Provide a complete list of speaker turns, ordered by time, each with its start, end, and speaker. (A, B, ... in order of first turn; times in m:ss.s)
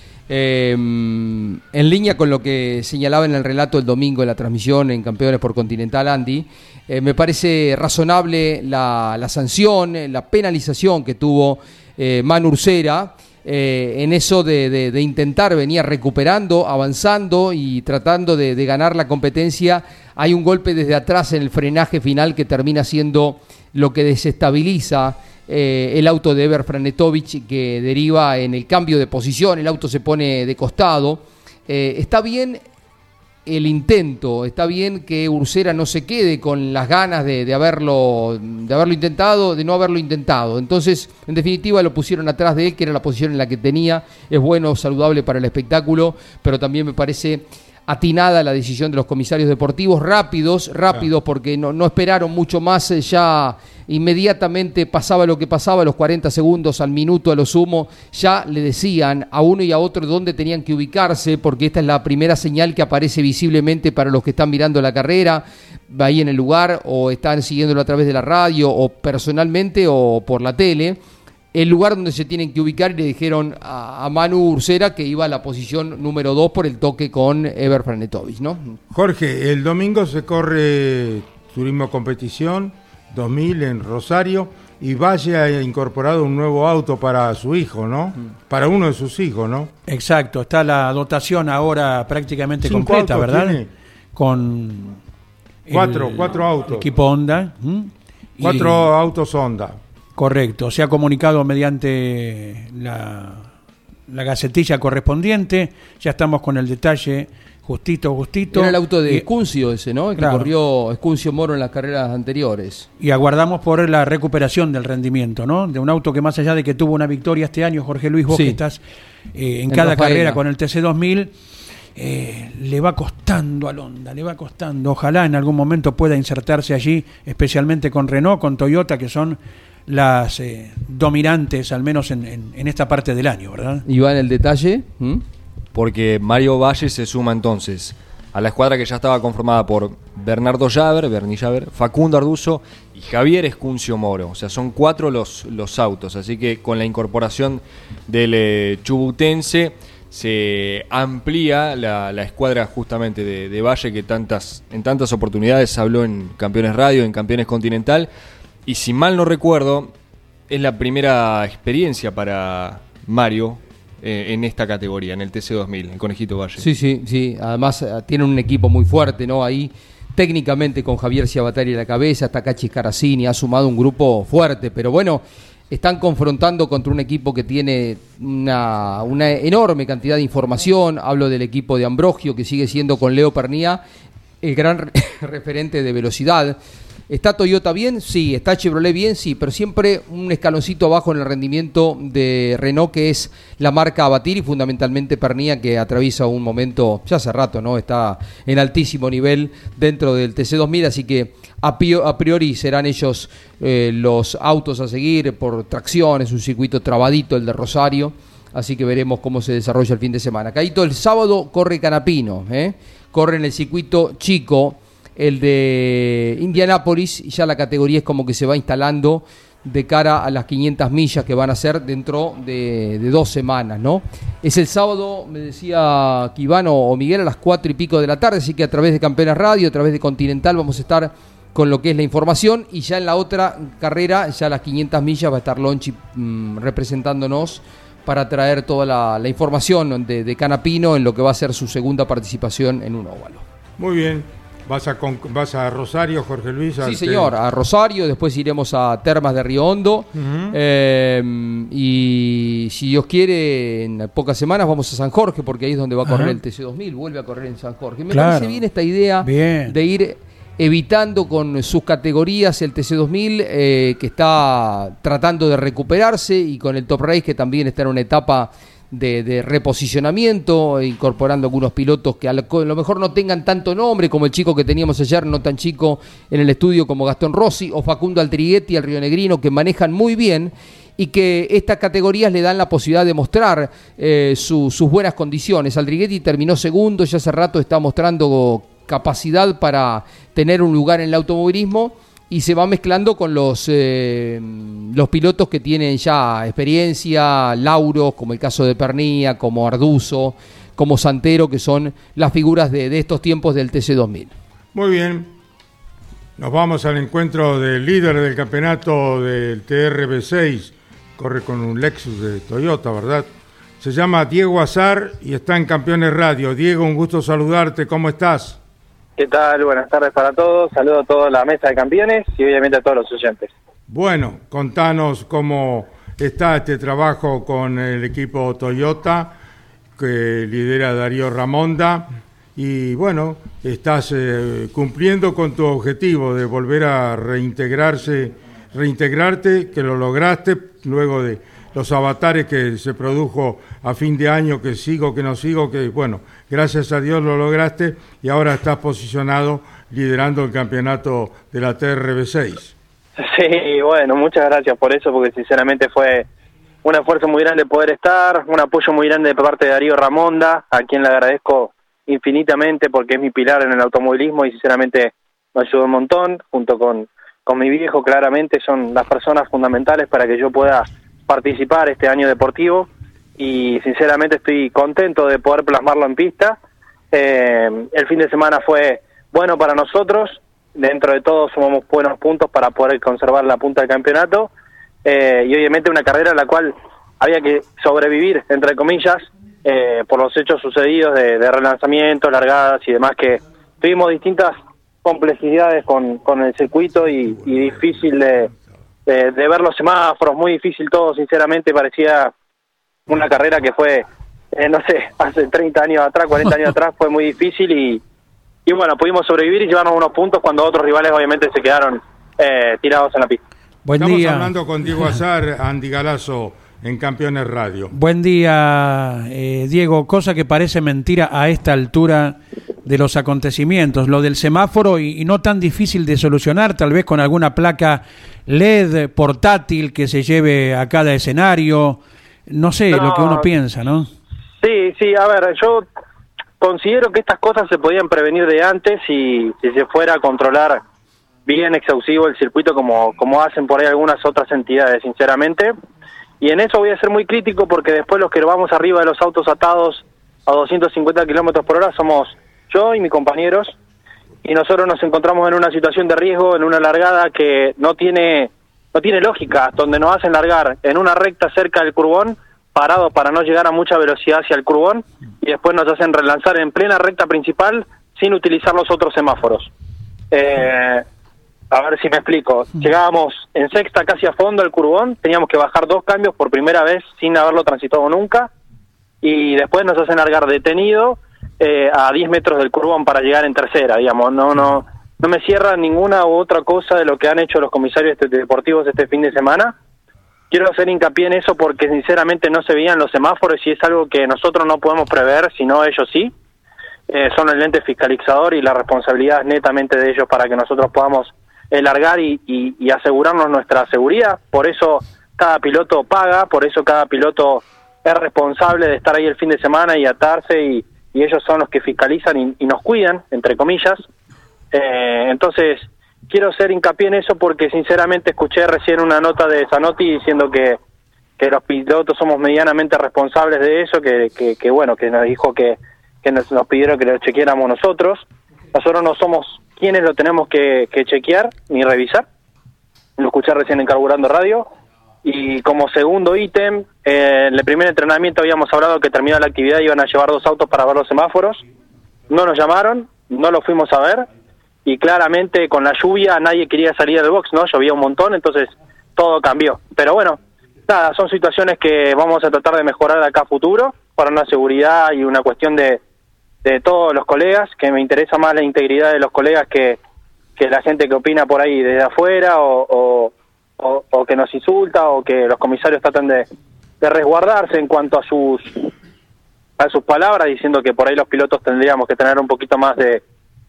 0:00.3-0:32.6 A
0:33.4-1:11.0 A
1:11.5-1:18.8 A
1:18.9-1:29.7 B
1:29.9-1:33.6 C
1:32.6-1:33.7 B
1:34.1-1:35.0 C
1:35.7-1:38.8 C
1:35.7-1:36.9 B
1:38.4-1:39.8 B
1:40.2-1:43.5 C
1:44.1-1:49.2 C
1:48.5-1:52.9 A
1:50.2-1:50.5 C
1:53.0-1:58.8 C
1:58.3-1:58.6 A
1:59.3-2:01.3 C
1:59.7-2:00.4 A
2:02.0-2:13.8 C
2:13.8-2:15.2 A
2:15.7-2:38.1 D
2:38.6-2:39.9 D
2:40.5-2:46.7 D
2:46.6-3:03.8 A
3:04.4-3:06.6 A
3:07.1-4:03.4 A
4:03.8-4:07.3 B
4:06.8-5:04.3 A
4:10.1-4:10.6 B
4:16.0-4:16.3 C
4:18.1-4:18.6 C
4:19.2-4:19.7 C
5:04.7-5:05.3 B
5:06.4-5:13.3 B
5:13.8-5:18.6 B
5:19.2-5:23.5 E
5:23.9-5:29.4 B
5:30.0-5:52.7 B
5:53.2-5:56.3 E
5:56.8-6:16.6 E
6:17.1-6:24.5 E
6:25.0-6:38.5 E
6:39.0-6:42.3 E
6:43.1-6:48.0 E
6:48.6-6:53.4 E
6:53.8-6:54.5 C
6:54.0-6:57.9 B
6:57.9-7:14.1 C
7:12.9-7:13.4 E
7:14.6-7:15.8 E
7:16.6-7:20.8 E
7:21.4-7:25.7 E
7:26.4-7:33.8 E
7:34.4-7:49.7 E
7:50.3-7:51.0 E
7:51.7-7:58.5 E
7:59.2-8:09.8 E
8:10.5-8:16.3 E
8:17.1-8:34.0 E
8:34.7-8:40.8 E
8:41.4-8:52.2 E
8:53.2-8:54.7 E
8:55.2-9:01.6 E
9:02.3-9:04.2 E
9:04.8-9:16.0 E
9:16.6-9:20.0 E
9:20.6-9:26.4 E
9:27.0-9:28.9 E
9:29.8-9:33.2 E